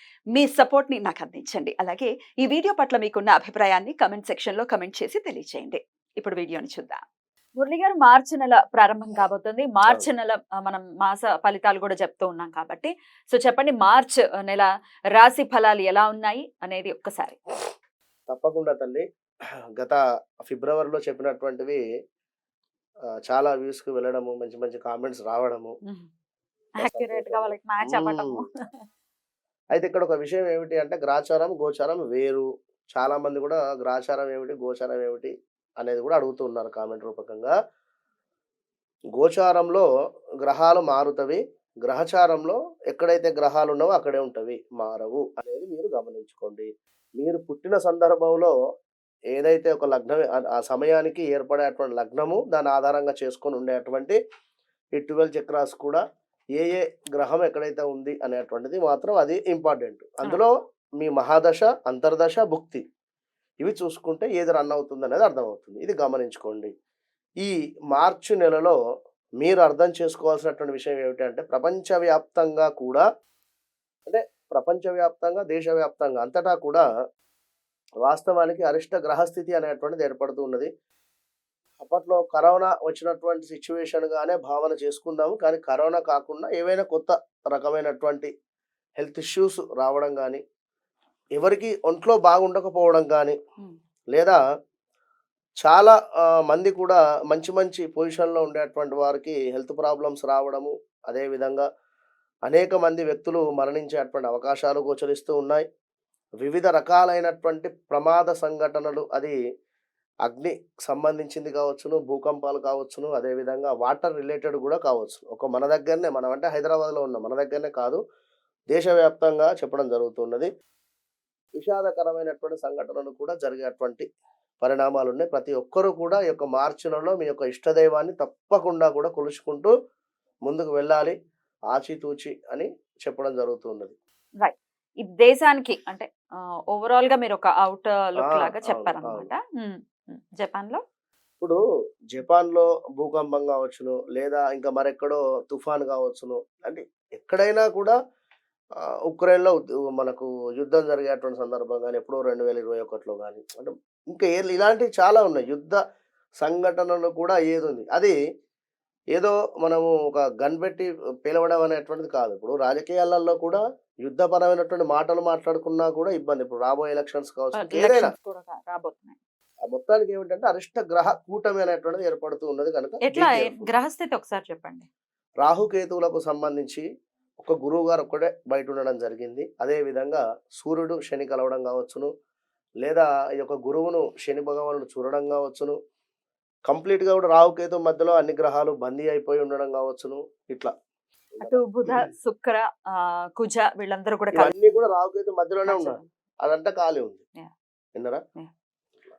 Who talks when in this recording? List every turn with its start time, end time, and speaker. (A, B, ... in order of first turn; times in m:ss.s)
0:00.3-0:07.0 A
0:07.6-0:17.4 A
0:18.3-0:19.0 B
0:19.8-0:21.8 B
0:23.3-0:25.8 B
0:26.8-0:28.7 A
0:26.8-0:28.4 B
0:29.7-0:37.5 B
0:39.2-0:39.9 B
0:40.4-0:48.5 B
0:49.3-0:54.2 B
0:55.0-0:56.0 B
0:56.6-1:02.8 B
1:03.6-1:06.7 B
1:07.4-1:08.8 B
1:09.4-1:13.0 B
1:14.1-1:16.8 B
1:18.0-1:20.7 B
1:21.8-1:28.3 B
1:29.0-1:30.4 B
1:31.4-1:33.4 B
1:35.6-1:41.7 B
1:42.5-1:45.6 B
1:46.4-1:49.4 B
1:50.2-1:58.0 B
1:58.7-2:00.5 B
2:01.6-2:04.1 B
2:04.6-2:09.7 B
2:10.5-2:11.2 B
2:11.7-2:14.0 B
2:14.4-2:20.8 A
2:18.2-2:19.3 B
2:22.1-2:28.0 B
2:28.8-2:35.8 B
2:36.4-2:38.2 B
2:39.1-2:48.1 B
2:47.5-2:49.2 A
2:49.6-2:53.7 B
2:53.0-2:54.9 A
2:55.4-2:56.8 B
2:57.4-3:02.1 B
3:02.8-3:05.8 B
3:06.7-3:10.7 B
3:11.3-3:12.1 B
3:11.4-3:14.8 A
3:14.3-3:17.2 B
3:15.7-3:16.1 A